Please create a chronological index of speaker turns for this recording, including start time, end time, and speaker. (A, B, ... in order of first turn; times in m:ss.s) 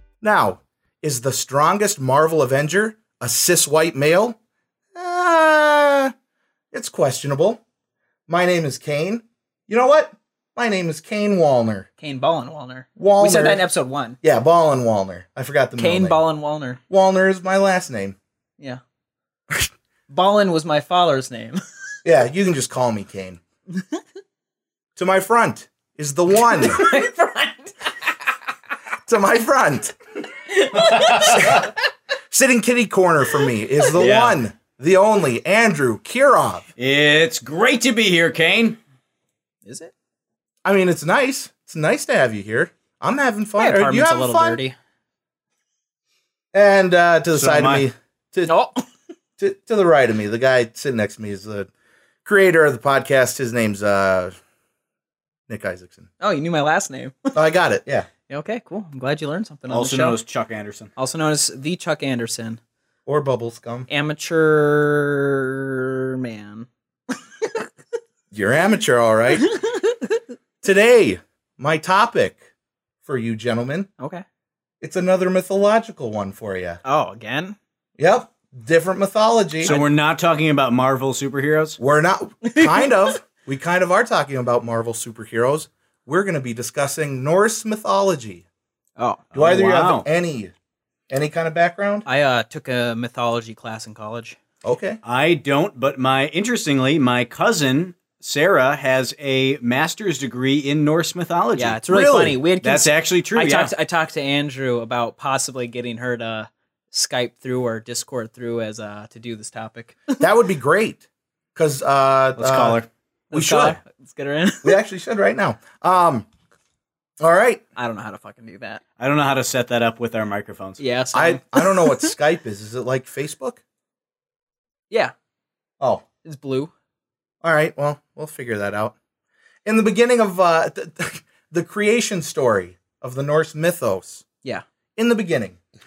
0:00.2-0:04.4 A
0:04.9-0:06.1 A
0:06.7-0:07.6 A
0:08.3-0:11.9 A
0:12.0-0:14.2 B
0:13.0-0:13.6 A
0:14.2-0:16.2 A
0:15.8-0:16.8 B
0:16.9-0:18.2 A
0:20.1-0:21.6 B
0:22.0-0:23.4 A
0:23.8-0:24.0 B
0:25.0-0:26.9 A
0:26.4-0:28.1 B
0:29.1-0:30.0 A
0:30.5-0:31.7 B
0:30.7-0:31.6 C
0:31.2-0:31.7 A
0:32.3-0:36.7 A
0:34.0-0:34.4 C
0:36.8-0:38.8 C
0:39.6-0:39.9 B
0:40.6-0:44.6 A
0:43.6-0:44.8 B
0:46.5-0:48.5 A
0:47.3-0:47.9 C
0:48.5-0:48.9 B
0:49.4-0:51.7 A
0:52.2-0:54.3 A
0:55.5-0:56.1 A
0:56.2-0:57.4 B
0:57.3-0:58.1 A
0:58.3-1:00.2 B
0:59.7-1:00.9 C
1:01.0-1:02.6 B
1:03.1-1:03.9 A
1:03.9-1:07.7 B
1:08.3-1:09.5 A
1:09.3-1:10.2 B
1:10.6-1:12.4 A
1:13.0-1:13.9 A
1:14.0-1:14.2 B
1:14.8-1:16.8 A
1:16.8-1:17.6 B
1:18.0-1:19.8 A
1:19.6-1:21.8 C
1:21.8-1:28.4 A
1:22.4-1:23.2 B
1:29.0-1:29.2 B
1:29.3-1:30.1 C
1:29.3-1:30.5 A
1:31.1-1:32.1 A
1:32.1-1:34.4 B
1:34.6-1:35.0 A
1:35.0-1:41.8 C
1:41.6-1:50.2 B
1:41.9-1:42.4 A
1:42.6-1:43.7 C
1:50.2-1:53.8 A
1:52.4-1:52.9 C
1:53.3-1:54.8 B
1:54.6-1:56.3 A
1:57.2-1:57.6 A
1:57.8-1:58.8 B
1:59.0-2:00.8 C
2:00.8-2:02.1 B
2:01.1-2:03.6 A
2:05.8-2:06.1 A
2:06.2-2:06.7 B
2:07.4-2:09.0 A
2:09.6-2:14.2 A
2:15.0-2:15.6 A